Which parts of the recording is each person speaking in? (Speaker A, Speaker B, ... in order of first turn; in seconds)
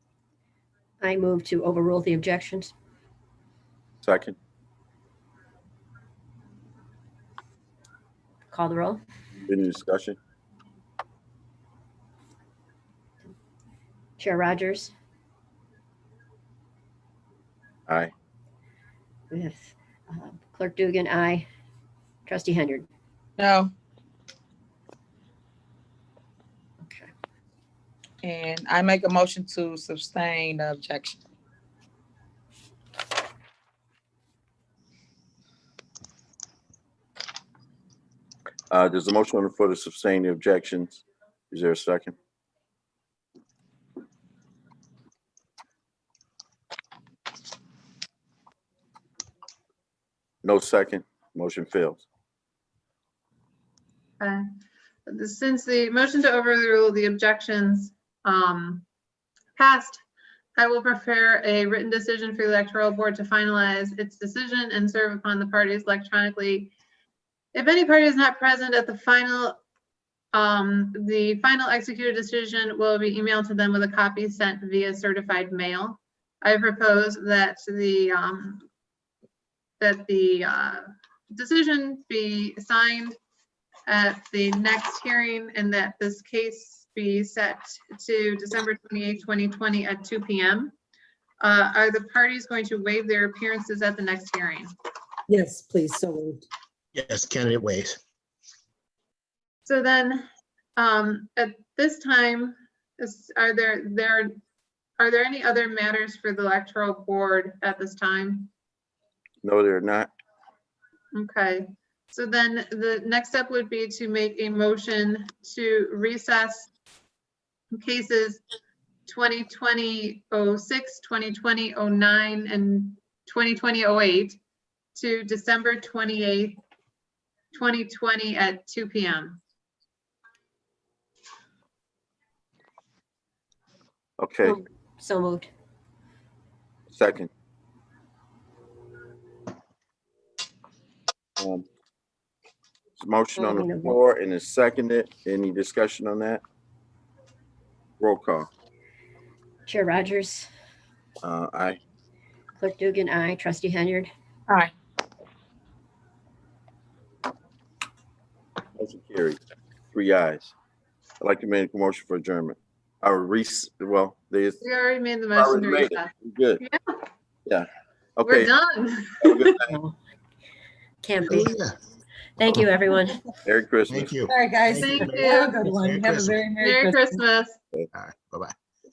Speaker A: 1.0-2.7, 8.5-9.0, 14.2-14.9, 19.3-21.5, 22.3-22.9, 26.8-27.1, 134.4-135.5, 143.4-144.0, 149.7-150.5, 152.6-154.1, 169.7-170.0, 171.0-171.5, 172.4-173.2
Speaker B: 4.0-4.4, 9.4-10.2, 38.7-42.1, 50.4-52.0, 109.4-110.1, 134.2-134.6, 136.9-137.3, 141.4-141.7, 143.0-146.4, 148.0-148.5, 151.2-151.8, 158.8-159.4, 159.9-160.5, 161.2-164.6, 165.4-166.6, 167.5-168.5, 169.2-169.7, 173.4-174.1
Speaker C: 23.4-23.7, 28.2-31.2
Speaker D: 54.2-54.5, 55.1-58.9, 59.6-60.0, 60.6-66.7, 67.5-69.6, 70.3-78.7, 79.8-83.2, 83.9-90.7, 91.4-94.7, 99.7-104.4, 105.0-108.5, 111.1-116.7, 117.7-118.4, 119.1-124.4, 125.0-126.6, 127.5-129.4, 164.6-166.1, 166.6-167.0, 168.2-169.5, 174.7-175.7, 176.6-177.6
Speaker E: 95.3-96.4, 174.3-177.1
Speaker F: 97.0-98.0, 171.3-171.8, 173.9-176.4, 177.9-178.5